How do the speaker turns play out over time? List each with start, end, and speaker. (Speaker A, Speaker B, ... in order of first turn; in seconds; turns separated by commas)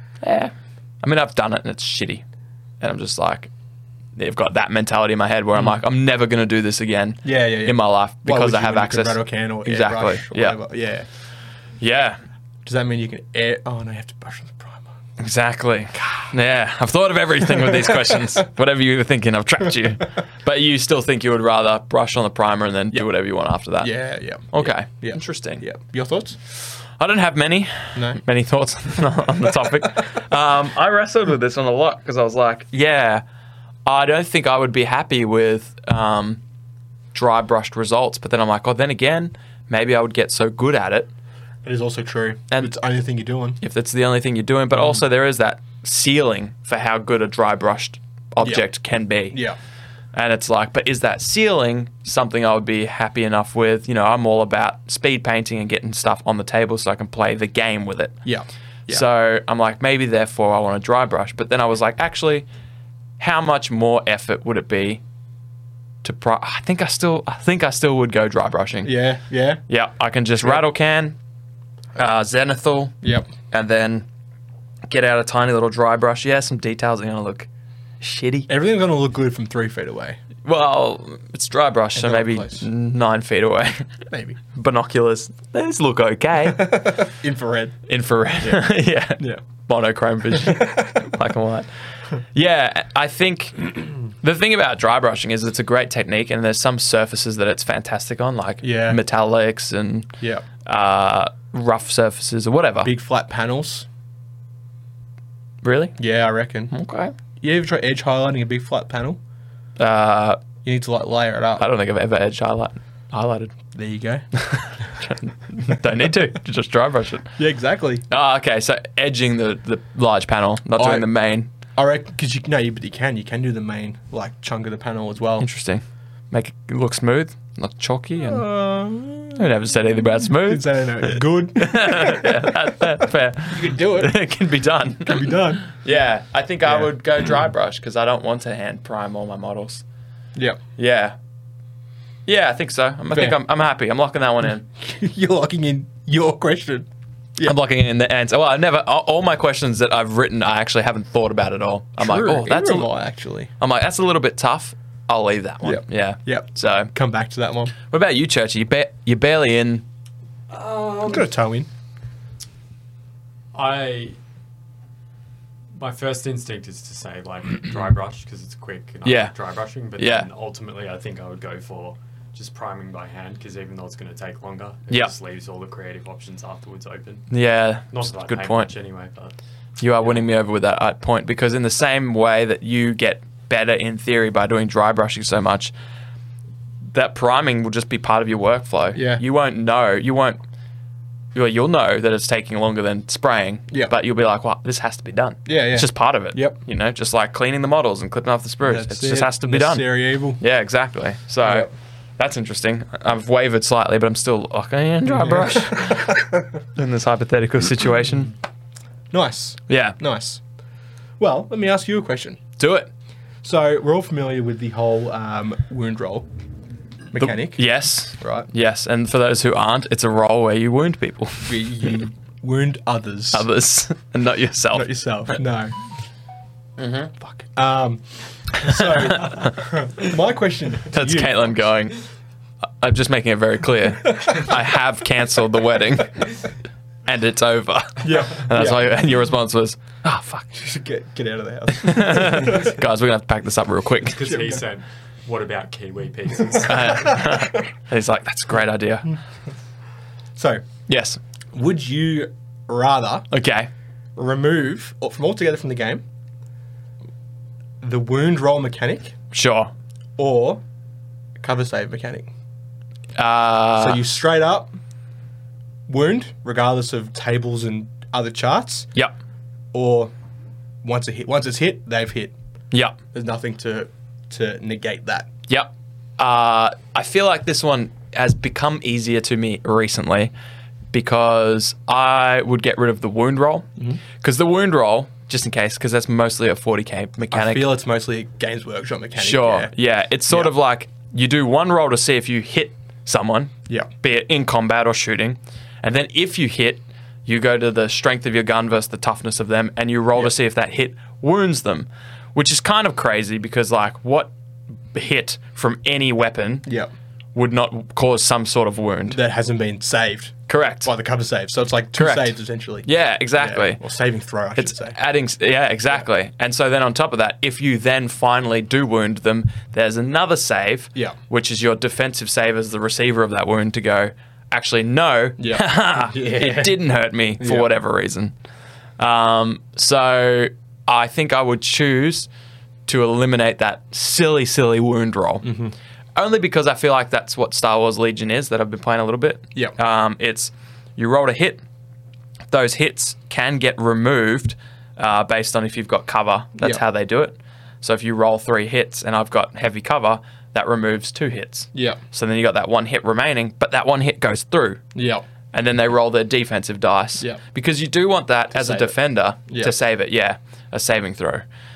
Speaker A: 0.2-2.2, Speaker A: 2.8-3.5, Speaker A: 4.2-10.6, Speaker B: 7.2-11.1, Speaker A: 11.8-12.2, Speaker B: 12.6-14.9, Speaker A: 15.2-23.9, Speaker B: 16.0-16.3, Speaker B: 17.6-18.2, Speaker B: 23.8-26.4, Speaker A: 24.5-25.6, Speaker A: 27.0-33.2, Speaker B: 27.9-28.2, Speaker A: 33.9-36.4, Speaker A: 37.1-41.1, Speaker B: 41.6-43.6, Speaker A: 43.6-49.4, Speaker B: 48.4-48.7, Speaker B: 49.3-49.6, Speaker A: 50.1-58.1, Speaker B: 58.2-59.0, Speaker A: 58.9-62.5, Speaker A: 63.2-65.0, Speaker A: 66.0-68.9, Speaker B: 68.8-69.6, Speaker A: 69.7-71.2, Speaker A: 72.0-73.0, Speaker B: 73.0-73.3, Speaker A: 73.5-74.0, Speaker A: 74.9-77.5, Speaker A: 78.0-78.5, Speaker B: 78.5-80.2, Speaker A: 80.4-83.9, Speaker B: 81.9-82.7, Speaker B: 84.1-84.4, Speaker A: 84.5-87.1, Speaker B: 86.4-87.8, Speaker A: 87.9-100.1, Speaker B: 88.4-89.4, Speaker B: 90.3-91.1, Speaker B: 98.6-99.0, Speaker B: 100.2-100.4, Speaker A: 100.6-102.9, Speaker B: 102.8-103.9, Speaker A: 105.6-106.0, Speaker B: 106.0-106.7, Speaker A: 106.7-107.1, Speaker B: 107.4-109.2, Speaker A: 109.8-110.4, Speaker B: 110.6-111.7, Speaker A: 111.6-113.5, Speaker B: 113.7-114.3, Speaker A: 114.3-117.3, Speaker B: 117.4-118.0, Speaker A: 118.1-121.5, Speaker B: 120.8-121.1, Speaker B: 121.7-125.5, Speaker A: 125.4-128.4, Speaker B: 128.2-129.5, Speaker A: 129.3-139.8, Speaker B: 130.3-132.7, Speaker B: 133.5-134.1, Speaker B: 135.1-135.6, Speaker B: 136.6-136.9, Speaker B: 140.3-140.6, Speaker A: 140.8-141.2, Speaker A: 142.2-144.7, Speaker B: 143.1-143.4, Speaker B: 144.8-147.6, Speaker A: 147.4-152.9, Speaker B: 152.0-153.5, Speaker A: 153.6-156.9, Speaker B: 155.6-157.7, Speaker A: 157.9-159.8, Speaker C: 160.5-161.3, Speaker B: 161.0-161.7, Speaker C: 163.5-164.2, Speaker C: 165.7-177.3, Speaker A: 169.0-169.3, Speaker A: 170.0-170.3, Speaker A: 177.3-178.7, Speaker C: 177.9-179.3, Speaker A: 179.8-185.7, Speaker A: 186.9-190.4, Speaker B: 188.9-189.2, Speaker A: 191.3-206.2, Speaker B: 195.4-196.6, Speaker B: 198.6-200.4, Speaker B: 201.4-201.7, Speaker B: 205.1-206.5, Speaker A: 206.7-208.3, Speaker B: 209.1-210.4, Speaker A: 209.7-210.0, Speaker B: 211.2-212.4, Speaker A: 212.6-212.9, Speaker B: 213.4-216.3, Speaker B: 217.1-217.7, Speaker A: 217.1-222.0, Speaker B: 218.2-218.5, Speaker B: 221.4-223.5, Speaker A: 223.3-224.9, Speaker B: 224.7-225.7, Speaker A: 226.8-227.1, Speaker B: 227.3-231.6, Speaker A: 228.6-229.6, Speaker A: 230.9-232.0, Speaker A: 232.8-236.3, Speaker B: 234.0-234.5, Speaker A: 237.1-240.5, Speaker B: 238.0-239.0, Speaker B: 240.5-242.8, Speaker A: 241.7-244.3, Speaker C: 244.0-247.2, Speaker B: 244.2-244.6, Speaker A: 246.6-249.1, Speaker B: 246.8-247.6, Speaker B: 250.3-250.6, Speaker A: 250.9-251.2, Speaker B: 251.5-253.3, Speaker A: 253.3-253.7, Speaker B: 254.2-256.0, Speaker B: 257.8-259.1, Speaker A: 259.3-259.7, Speaker B: 260.2-260.6, Speaker B: 261.4-262.3, Speaker A: 263.1-264.0, Speaker B: 263.8-264.7, Speaker B: 265.9-268.9, Speaker B: 269.7-270.1, Speaker B: 270.8-272.3, Speaker A: 272.7-273.0, Speaker B: 273.1-275.3, Speaker A: 275.5-280.3, Speaker A: 280.9-287.7, Speaker B: 287.3-289.7, Speaker A: 289.2-304.3, Speaker A: 304.9-306.7, Speaker B: 306.6-306.9, Speaker A: 307.3-309.2, Speaker B: 309.1-315.0, Speaker A: 310.5-310.9, Speaker A: 311.9-313.8, Speaker A: 314.5-328.3, Speaker B: 325.4-326.8, Speaker B: 327.4-327.7, Speaker A: 329.0-332.3, Speaker A: 332.9-335.6, Speaker B: 335.4-335.7, Speaker A: 336.1-341.6, Speaker A: 342.5-354.8, Speaker B: 351.7-352.0, Speaker B: 354.9-355.2, Speaker A: 355.5-361.4, Speaker B: 358.5-358.9, Speaker B: 359.5-359.7